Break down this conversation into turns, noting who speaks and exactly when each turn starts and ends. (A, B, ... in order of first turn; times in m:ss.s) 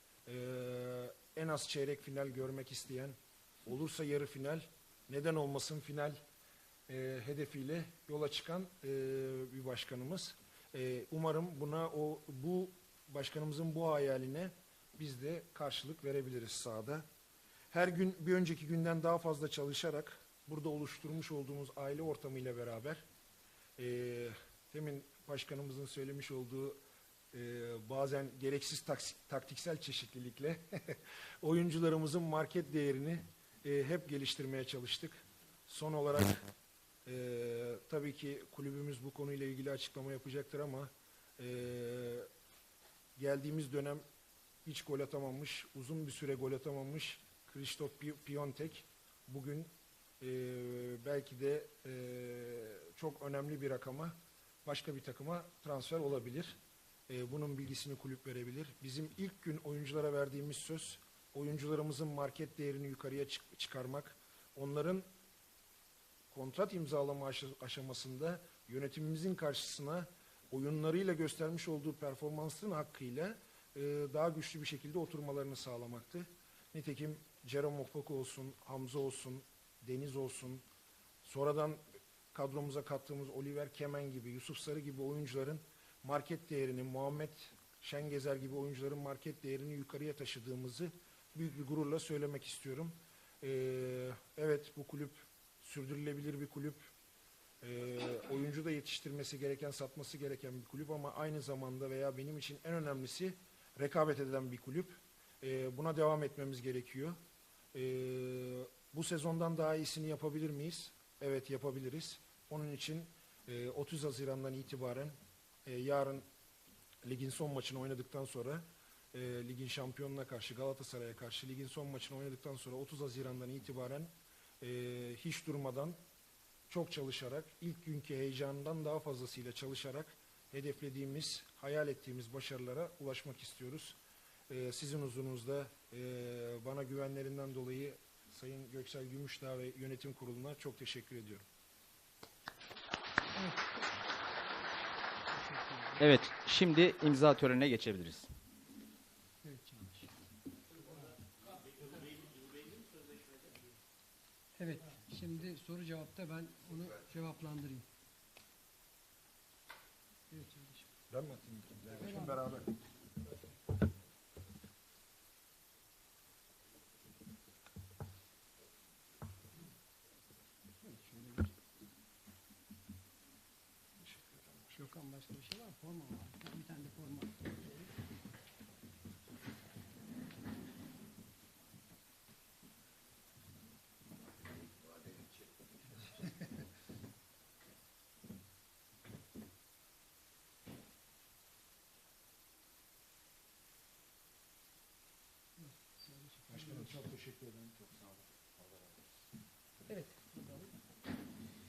0:00.3-0:06.2 A
0:06.9-0:17.0 A
0:17.7-0:23.0 A
0:23.8-0:26.8 A
0:27.3-0:36.5 A
0:37.1-0:42.3 A
0:43.2-0:44.0 A
0:44.6-0:49.7 A
0:50.2-0:56.6 A
0:57.1-1:05.0 A
1:06.3-1:20.6 A
1:21.2-1:21.8 A
1:22.3-1:36.8 A
1:37.6-1:47.2 A
1:47.7-1:55.2 A
1:55.7-1:56.2 A
1:57.0-2:06.0 A
2:06.7-2:14.0 A
2:14.5-2:21.4 A
2:25.3-2:26.0 B
2:26.0-2:28.3 C
2:29.4-2:30.1 B
2:34.6-2:37.9 B
2:40.3-2:40.9 B
2:41.1-2:42.8 A
2:42.0-2:42.4 B
2:50.8-2:51.5 B
2:54.7-2:57.9 B
3:15.6-3:16.9 B
3:16.5-3:19.0 A
3:19.9-3:20.7 B